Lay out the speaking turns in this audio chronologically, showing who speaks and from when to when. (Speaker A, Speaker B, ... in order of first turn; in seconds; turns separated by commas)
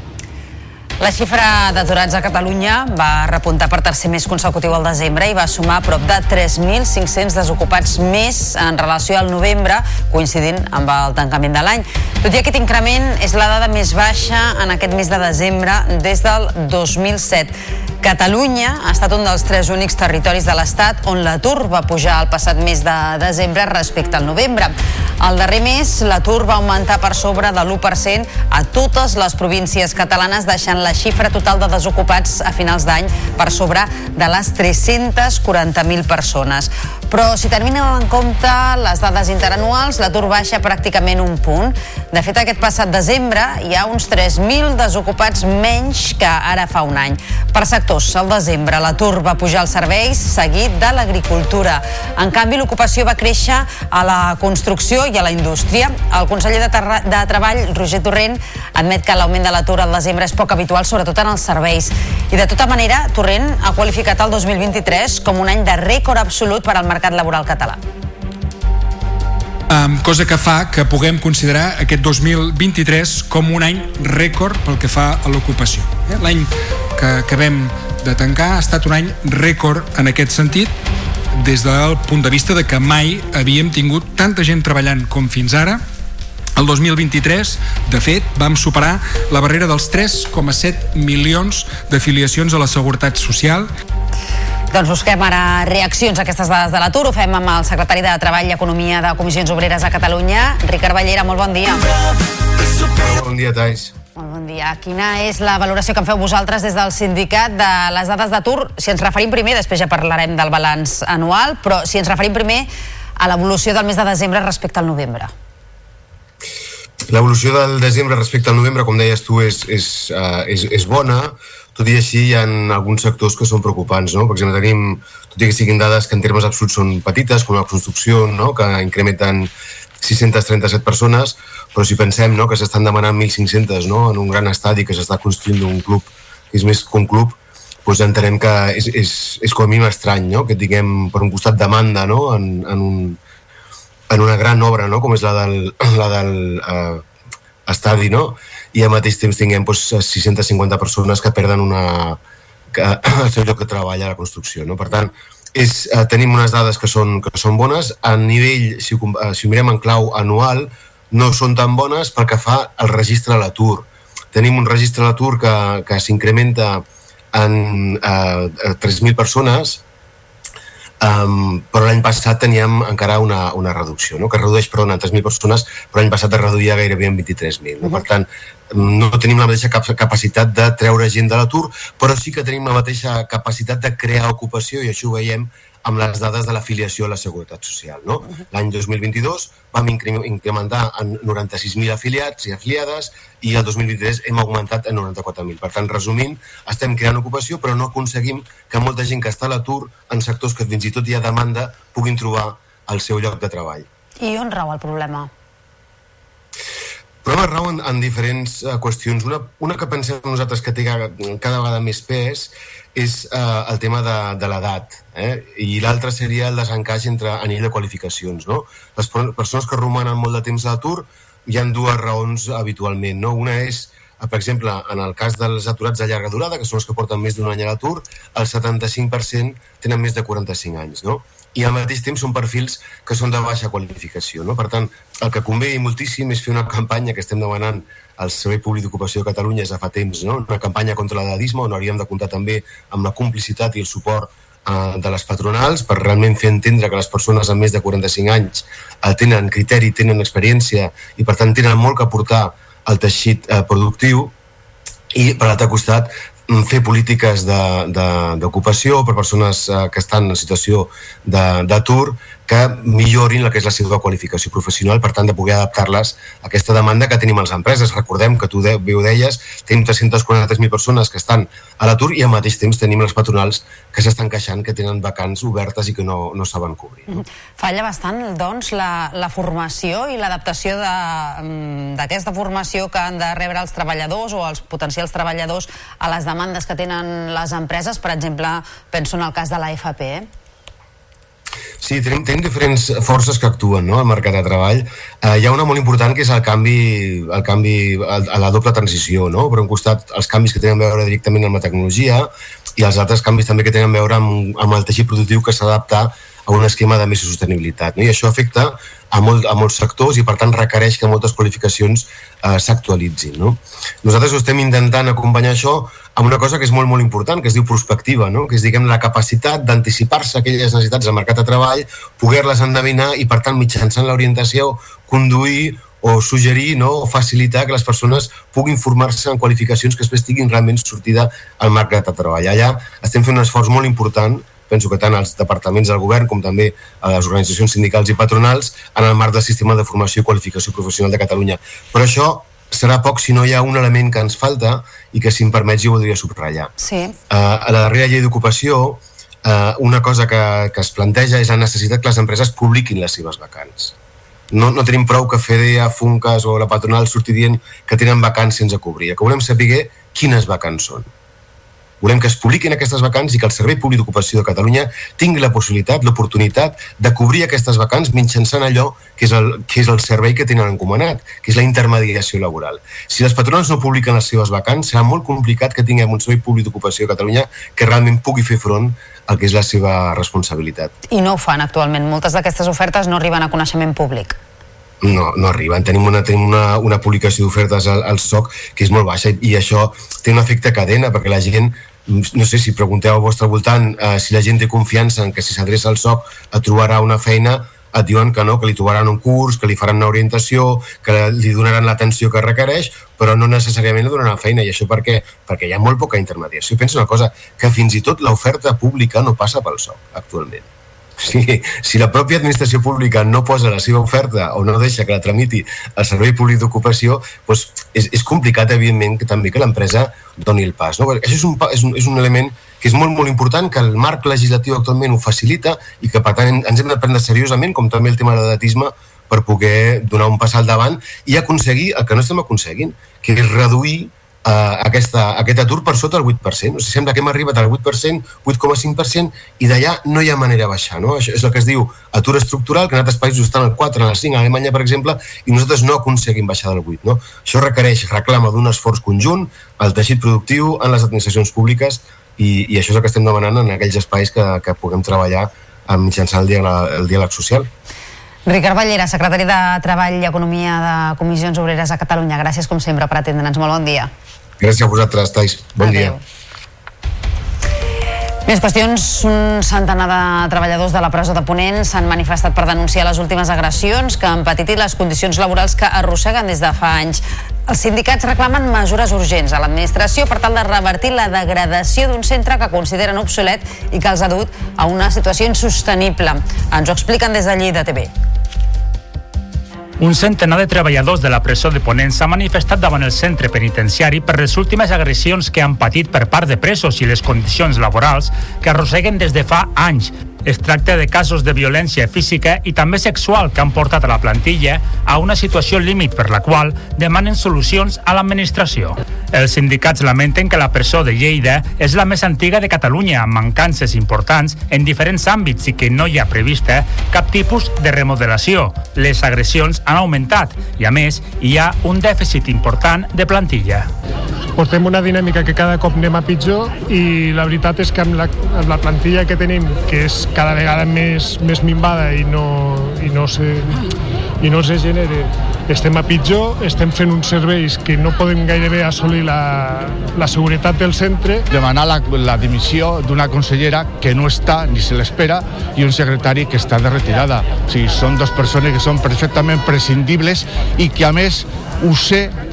Speaker A: 1.0-67.8, Speaker B: 69.7-80.7, Speaker B: 81.4-85.8, Speaker B: 86.6-93.7, Speaker A: 94.7-101.9, Speaker C: 102.9-103.9, Speaker A: 104.2-115.3, Speaker C: 117.1-143.2, Speaker C: 144.1-147.0, Speaker C: 147.7-152.2, Speaker C: 152.7-169.8, Speaker C: 171.0-203.8, Speaker A: 204.2-205.3, Speaker C: 207.2-254.3, Speaker C: 255.2-277.1, Speaker A: 277.1-290.3, Speaker C: 291.8-346.7, Speaker A: 346.8-347.1, Speaker C: 347.3-353.9, Speaker C: 354.5-361.1, Speaker C: 362.0-380.9, Speaker A: 381.1-384.4, Speaker C: 385.0-410.6, Speaker C: 411.2-457.7, Speaker A: 458.5-464.1, Speaker C: 464.6-466.1, Speaker A: 465.8-466.2, Speaker A: 468.5-488.1, Speaker D: 490.0-523.9, Speaker E: 524.5-533.8, Speaker E: 534.4-541.4, Speaker F: 541.5-552.3